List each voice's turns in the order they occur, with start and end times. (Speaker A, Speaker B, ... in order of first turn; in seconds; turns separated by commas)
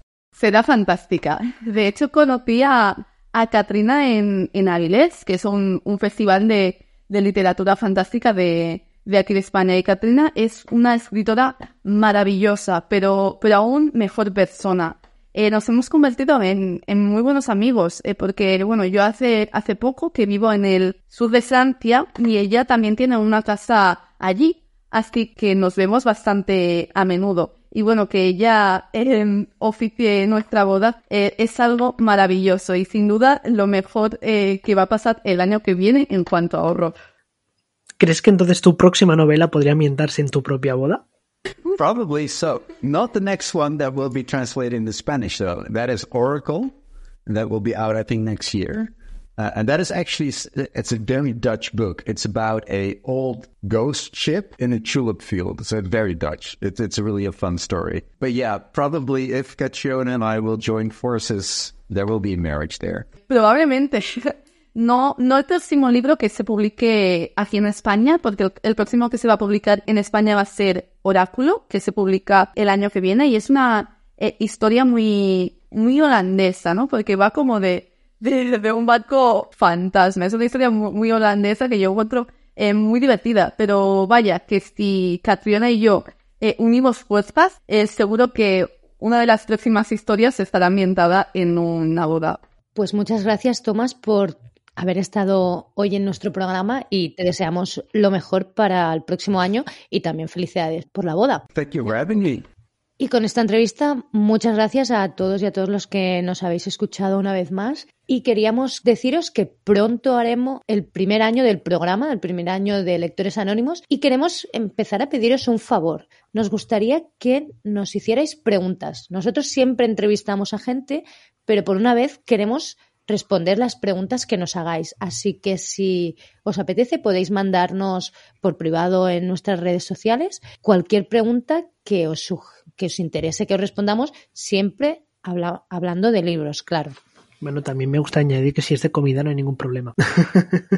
Speaker A: 0.4-37.0, Speaker B: 38.0-41.0, Speaker C: 41.8-46.7, Speaker C: 47.3-63.1, Speaker A: 63.3-92.4, Speaker D: 92.8-101.4, Speaker C: 101.5-102.5, Speaker D: 103.0-137.0, Speaker B: 137.4-140.6